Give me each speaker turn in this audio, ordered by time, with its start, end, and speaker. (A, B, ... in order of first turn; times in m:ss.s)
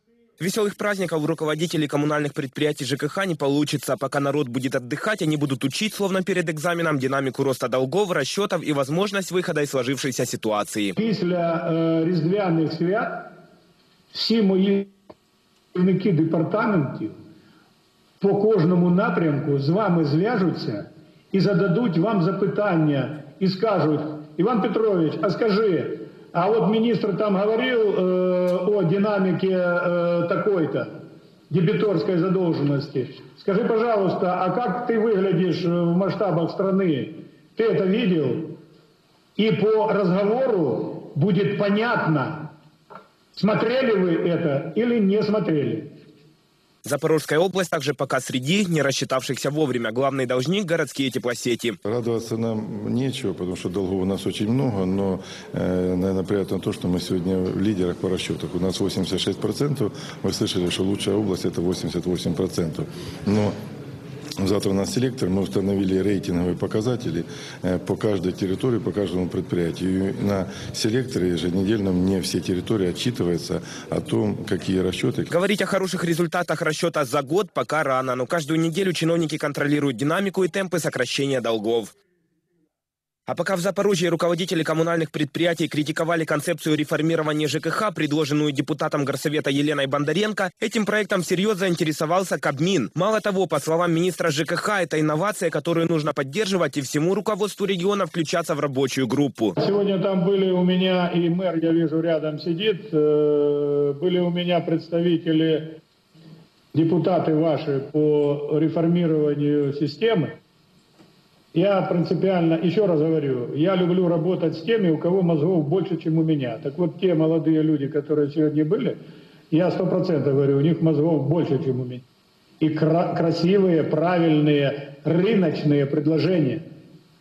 0:00.4-0:10.9 A
0:11.0-0:13.3 B
0:14.1-0:14.9 B
0:15.7-0:17.2 B
0:18.2-0:30.9 B
0:31.5-0:38.6 B
0:39.4-0:42.5 B
0:43.4-0:45.9 B
0:46.8-0:51.8 A
0:51.8-1:03.6 C
1:04.4-1:15.3 C
1:15.3-1:21.9 A
1:23.3-1:39.6 A
1:39.6-1:45.8 B
1:46.7-1:50.4 B
1:51.5-1:59.0 B
1:59.5-2:02.0 B
2:02.6-2:06.6 B